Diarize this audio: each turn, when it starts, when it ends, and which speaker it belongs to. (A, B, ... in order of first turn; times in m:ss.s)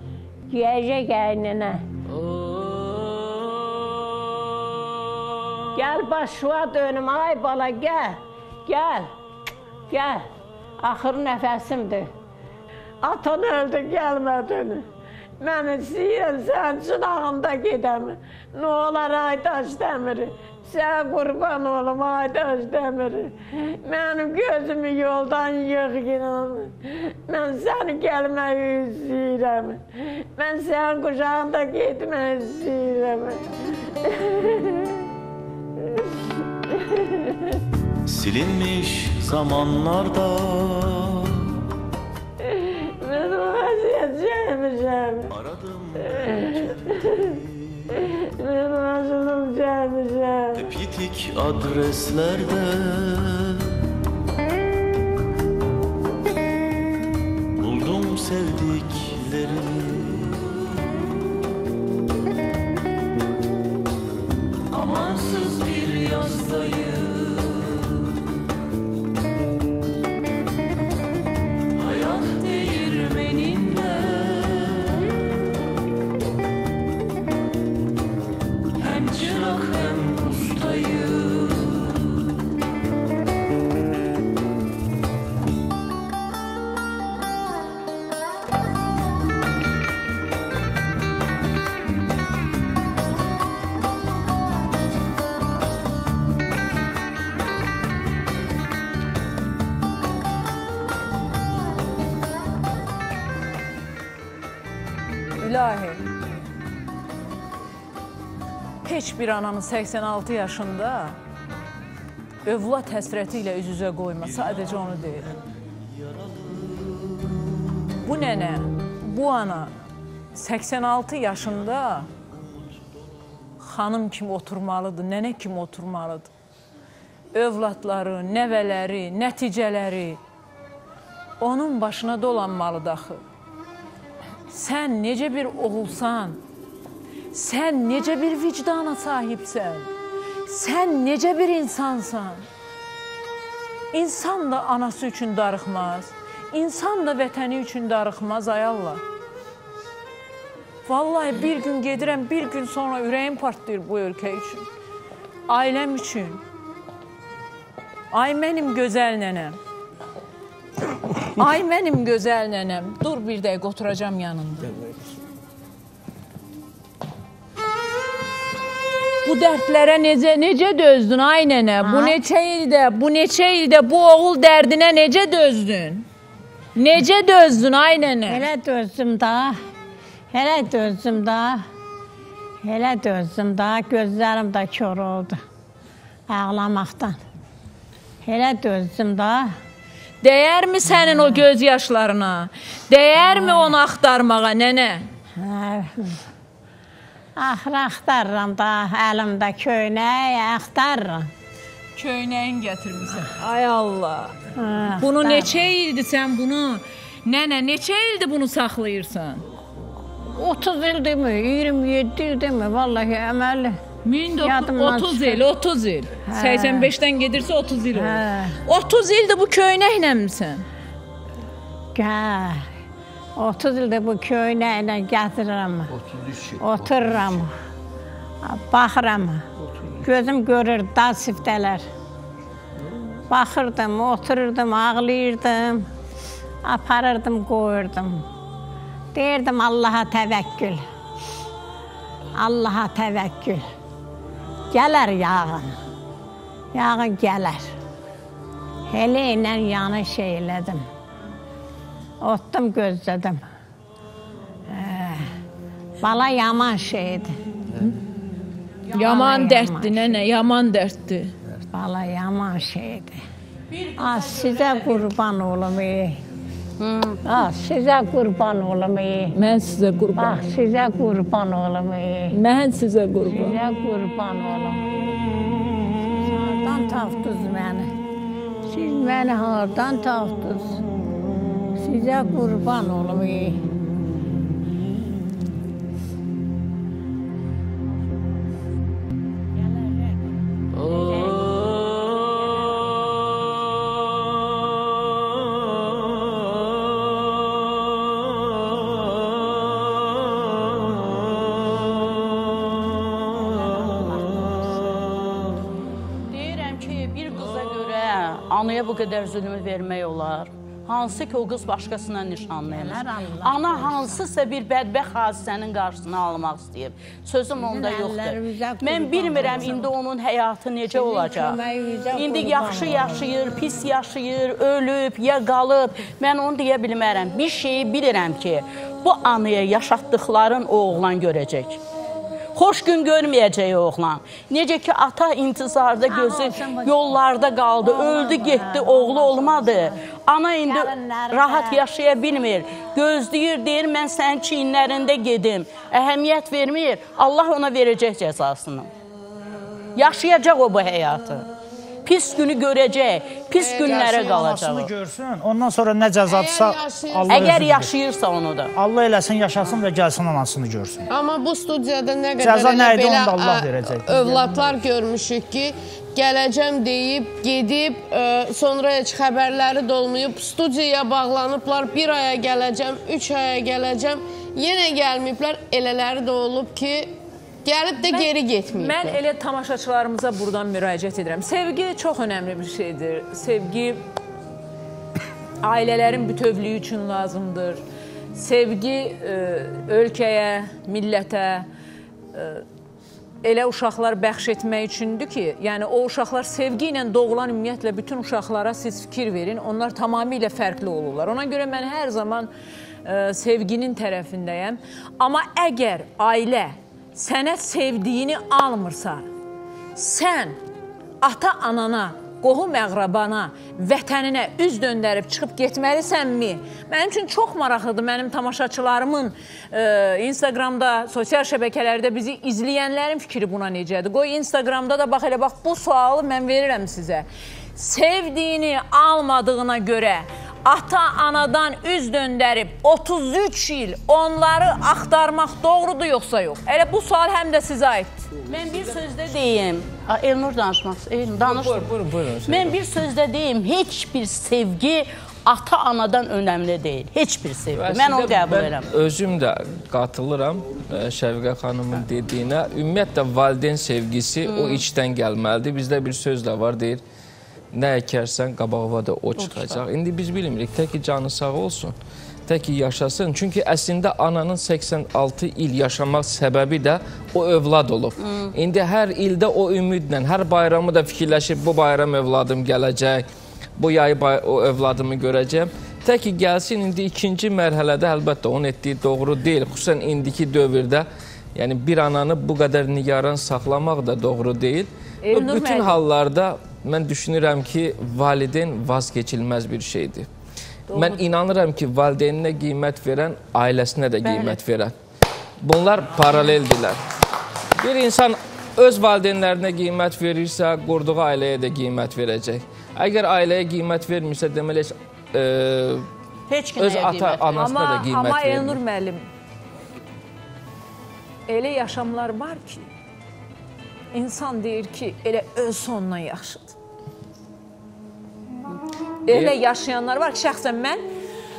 0:00.5-0:01.8 A
0:05.7-0:09.1 A
0:09.9-0:10.2 A
0:10.8-0:12.1 A
0:13.0-0:14.8 A
0:15.4-0:33.4 A
0:34.0-0:35.0 A
0:35.8-0:36.1 A
0:36.7-0:37.5 A
0:38.1-0:41.3 B
0:42.4-0:45.3 A
0:45.4-0:47.3 B
0:46.2-0:46.6 A
0:48.2-0:50.6 A
0:50.6-0:53.6 B
0:57.6-1:00.4 B
1:04.8-1:06.6 C
1:11.9-1:14.3 C
1:18.9-1:21.3 C
1:45.4-1:46.0 C
1:48.8-1:51.2 C
1:52.4-1:55.3 C
1:56.2-1:56.9 B
1:58.0-1:59.7 C
2:00.3-2:02.1 C
2:03.6-2:06.3 C
2:07.3-2:10.2 C
2:11.4-2:13.2 C
2:14.5-2:16.4 C
2:17.3-2:19.9 C
2:20.5-2:22.4 C
2:23.9-2:29.0 C
2:30.9-2:34.6 C
2:35.5-2:36.4 C
2:38.1-2:39.6 C
2:41.4-2:44.7 C
2:49.2-2:56.0 C
2:51.8-2:52.2 A
2:56.8-2:58.4 C
2:58.3-2:59.6 A
3:00.3-3:01.6 A
3:02.6-3:05.4 A
3:06.3-3:07.2 A
3:08.2-3:09.5 A
3:10.2-3:15.0 C
3:13.2-3:13.7 A
3:15.4-3:16.2 A
3:17.4-3:21.3 A
3:22.0-3:24.3 C
3:24.6-3:25.6 A
3:25.0-3:29.4 C
3:30.3-3:33.8 A
3:34.0-3:40.6 C
3:34.4-3:35.4 A
3:36.3-3:36.9 A
3:37.9-3:38.6 A
3:41.9-3:42.6 A
3:43.4-3:45.9 A
3:45.9-3:47.4 D
3:46.6-3:47.5 A
3:48.4-3:49.4 A
3:49.7-3:50.1 D
3:50.0-3:51.8 A
3:52.8-3:53.1 D
3:53.3-3:55.8 A
3:56.6-3:58.2 A
3:59.1-4:00.8 A
4:02.4-4:03.6 A
4:04.7-4:05.7 A
4:06.7-4:07.7 A
4:08.9-4:10.8 A
4:12.2-4:13.4 A
4:14.7-4:15.3 A
4:16.0-4:17.3 A
4:18.9-4:20.0 A
4:18.9-4:21.3 C
4:21.7-4:23.2 A
4:23.7-4:25.1 E
4:24.0-4:26.2 A
4:26.8-4:27.2 E
4:27.2-4:29.3 A
4:29.3-4:30.4 C
4:30.2-4:32.3 A
4:32.3-4:33.6 C
4:33.3-4:34.8 A
4:36.1-4:37.9 A
4:38.7-4:40.9 A
4:41.8-4:43.6 A
4:49.7-4:50.0 A
4:50.8-4:52.8 A
5:03.5-5:04.9 A
5:06.3-5:21.6 E
5:12.7-5:14.2 A
5:17.6-5:19.9 A
5:20.9-5:23.3 A
5:22.1-5:31.8 E
5:32.5-5:48.9 E
5:36.1-5:36.9 A
5:37.8-5:40.0 A
5:40.6-5:41.8 A
5:50.0-5:51.5 E
5:52.0-5:54.9 E
5:53.6-5:54.4 F
5:53.8-5:57.9 G
5:56.2-5:57.6 F
5:57.3-5:58.7 E
5:58.7-6:01.0 G
6:01.1-6:17.1 F
6:02.4-6:04.7 G
6:17.6-6:19.2 F
6:18.0-6:24.0 C
6:25.6-6:27.8 C
6:28.3-6:31.7 C
6:32.3-6:32.6 C
6:33.4-6:42.5 C
6:43.0-6:49.2 C
6:50.0-6:50.6 C
6:51.2-7:07.2 C
7:07.8-7:18.3 C
7:18.4-7:21.9 E
7:21.4-7:22.7 H
7:22.4-7:28.8 E
7:27.8-7:37.0 H
7:34.4-7:34.8 E
7:37.7-7:41.9 H
7:39.4-7:39.8 E
7:42.5-8:10.3 H
7:48.2-7:48.5 E
8:05.2-8:06.0 C
8:10.9-8:11.2 C
8:10.9-8:14.9 H
8:14.2-8:14.6 E
8:15.6-8:17.0 H
8:17.8-8:26.1 H
8:26.5-8:27.5 E
8:26.8-8:28.8 H
8:27.5-8:29.3 C
8:31.5-8:32.9 C
8:34.1-8:36.7 C
8:39.3-8:41.0 C
8:39.3-8:39.5 H